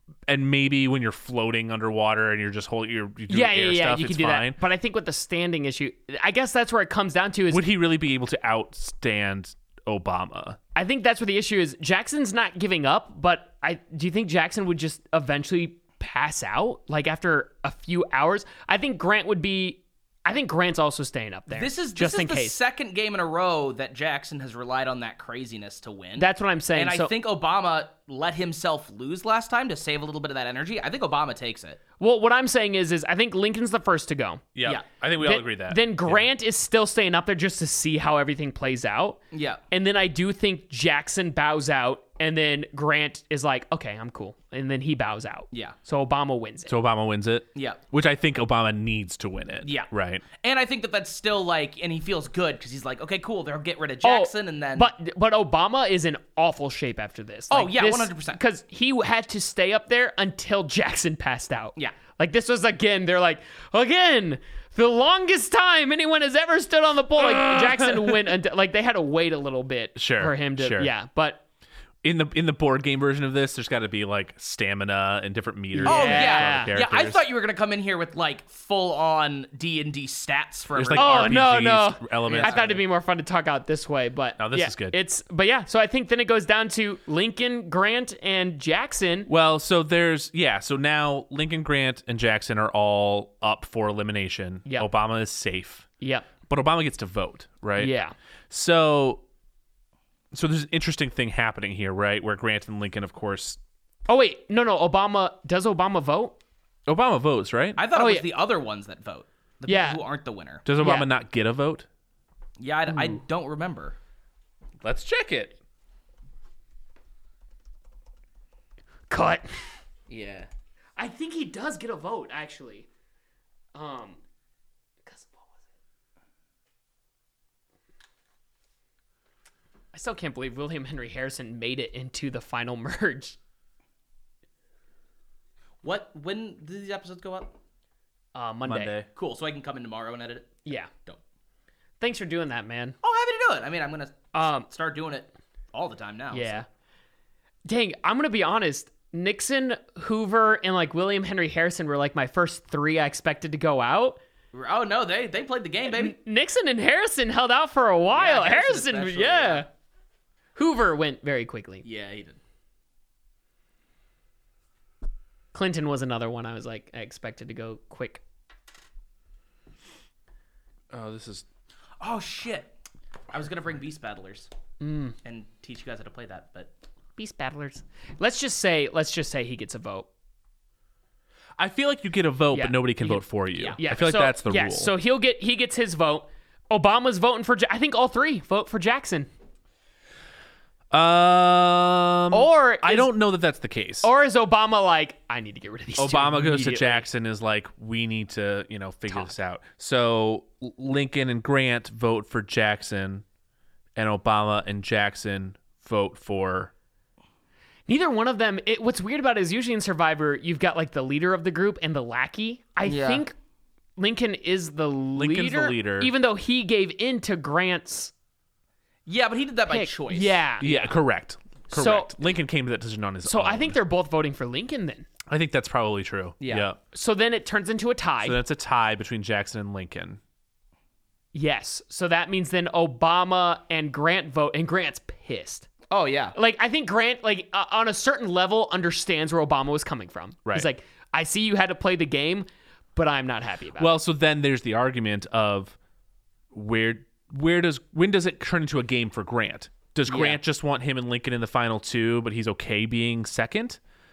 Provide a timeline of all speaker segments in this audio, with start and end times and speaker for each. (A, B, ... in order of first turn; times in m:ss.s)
0:00.3-0:04.6 A
0:03.3-0:07.6 B
0:07.5-0:10.6 A
0:10.8-0:22.6 B
0:21.5-0:31.8 C
0:26.2-0:27.1 B
0:32.0-0:34.4 B
0:34.6-0:36.3 A
0:35.2-0:39.2 B
0:39.3-0:39.6 C
0:39.7-0:46.7 B
0:46.7-0:50.2 A
0:47.6-0:47.8 C
0:49.6-0:54.9 C
0:54.0-1:11.4 B
0:57.5-0:58.4 C
1:10.0-1:10.9 A
1:12.0-1:17.3 A
1:15.8-1:16.7 B
1:15.8-1:21.4 C
1:20.7-1:22.8 A
1:20.9-1:29.3 B
1:22.2-1:22.6 C
1:24.4-1:25.0 A
1:29.3-1:35.9 A
1:36.0-1:36.3 B
1:36.5-1:37.9 A
1:37.8-1:38.1 B
1:38.5-1:39.2 A
1:40.3-1:43.6 A
1:44.1-1:46.4 B
1:46.9-1:47.8 A
1:47.8-1:50.7 C
1:47.9-1:48.3 B
1:49.7-1:50.0 B
1:50.6-1:51.9 A
1:50.8-1:51.1 B
1:52.6-1:54.0 C
1:54.8-1:55.6 A
1:59.1-1:59.5 B
2:00.1-2:00.5 C
2:01.0-2:02.9 B
2:03.8-2:04.2 B
2:05.0-2:05.6 B
2:09.9-2:13.4 B
2:15.8-2:17.6 C
2:18.3-2:19.0 B
2:18.6-2:19.1 A
2:19.1-2:21.2 C
2:20.6-2:20.9 B
2:22.0-2:23.0 B
2:23.0-2:26.6 C
2:24.3-2:24.7 B
2:26.3-2:26.7 B
2:27.6-2:34.2 B
2:34.5-2:36.2 C
2:35.9-2:39.7 B
2:38.1-2:39.7 C
2:40.6-2:41.8 B
2:41.8-2:42.4 C
2:45.5-2:48.2 B
2:50.9-2:51.4 A
2:52.0-2:52.7 C
2:53.3-2:54.5 C
2:54.8-2:55.2 B
2:55.2-2:56.7 C
2:57.2-3:00.1 B
3:01.6-3:04.9 A
3:02.5-3:09.3 B
3:10.9-3:14.1 A
3:12.3-3:13.1 B
3:14.0-3:17.1 B
3:16.0-3:23.2 A
3:24.0-3:26.7 A
3:27.9-3:33.4 B
3:32.9-3:33.2 C
3:34.0-3:38.1 B
3:35.2-3:36.1 A
3:39.1-3:40.4 C
3:39.7-3:41.0 B
3:40.6-3:43.8 A
3:41.7-3:42.1 B
3:43.2-3:45.1 B
3:45.3-3:46.8 A
3:46.4-3:46.7 C
3:46.9-3:48.4 B
3:48.2-3:50.2 A
3:51.3-3:55.7 B
3:55.9-3:56.4 C
3:56.4-4:04.0 B
4:03.8-4:05.8 A
4:06.5-4:13.8 A
4:10.1-4:10.4 C